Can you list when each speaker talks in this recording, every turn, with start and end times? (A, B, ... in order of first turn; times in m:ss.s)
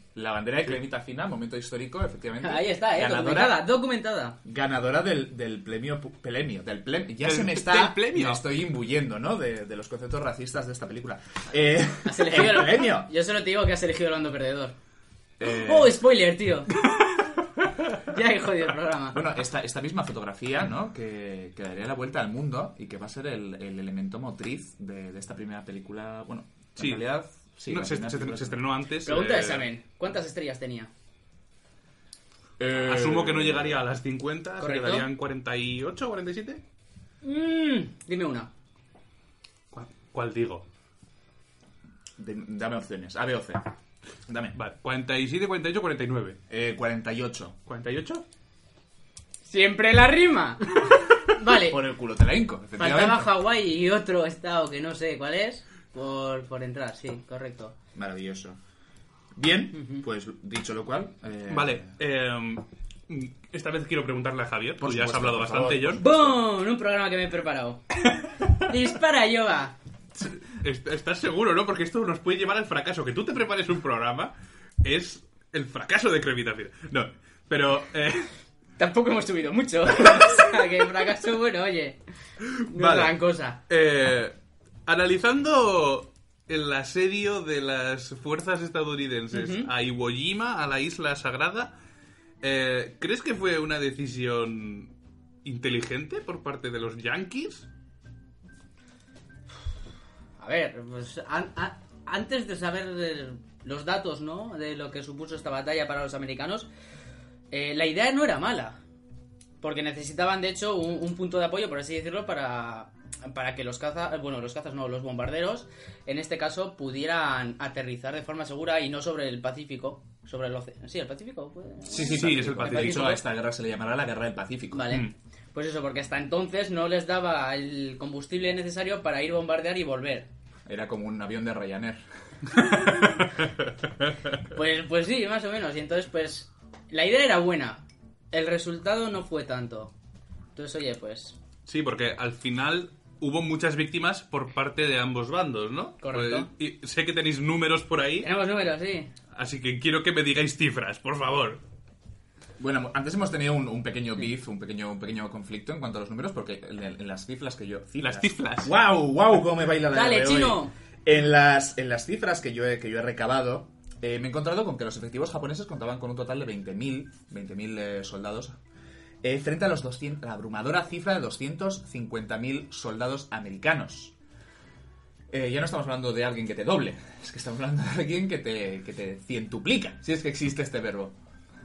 0:00.1-0:03.6 A
0:02.4-0:04.4 B
0:04.4-0:13.1 A
0:07.2-0:08.4 C
0:12.0-0:14.8 B
0:15.4-0:16.0 A
0:15.4-0:16.7 B
0:18.0-0:19.2 B
0:19.1-0:28.6 A
0:26.8-0:27.0 C
0:27.7-0:29.7 C
0:29.0-0:30.9 B
0:32.6-0:33.8 A
0:32.8-0:36.6 C
0:34.6-0:35.1 B
0:37.2-0:38.5 B
0:39.7-0:40.6 C
0:42.2-0:43.7 A
0:44.3-0:44.5 A
0:44.5-0:46.4 C
0:46.5-0:47.6 A
0:47.6-0:48.2 C
0:49.4-0:51.8 B
0:51.5-0:53.3 A
0:52.8-0:57.7 B
0:57.9-0:58.6 A
0:59.3-1:01.9 A
0:59.7-1:00.0 B
1:01.5-1:06.0 C
1:04.8-1:06.3 A
1:06.0-1:07.8 B
1:08.5-1:09.7 B
1:10.2-1:18.3 C
1:18.8-1:22.0 B
1:22.5-1:23.1 C
1:22.6-1:23.6 B
1:23.7-1:31.7 C
1:29.3-1:29.7 B
1:32.4-1:34.9 C
1:35.4-1:37.7 C
1:40.4-1:46.7 B
1:47.5-1:48.8 B
1:49.6-2:03.2 B
2:01.9-2:04.9 A
2:01.9-2:03.2 C
2:04.7-2:10.3 B
2:10.7-2:12.0 A
2:12.5-2:14.3 C
2:14.5-2:19.9 B
2:20.5-2:21.4 B
2:21.6-2:28.3 C
2:26.0-2:26.5 B
2:28.2-2:29.1 B
2:29.3-2:31.6 C
2:32.6-2:48.6 A
2:38.0-2:38.7 C
2:39.9-2:40.7 B
2:49.2-2:54.1 A
2:55.3-3:01.1 A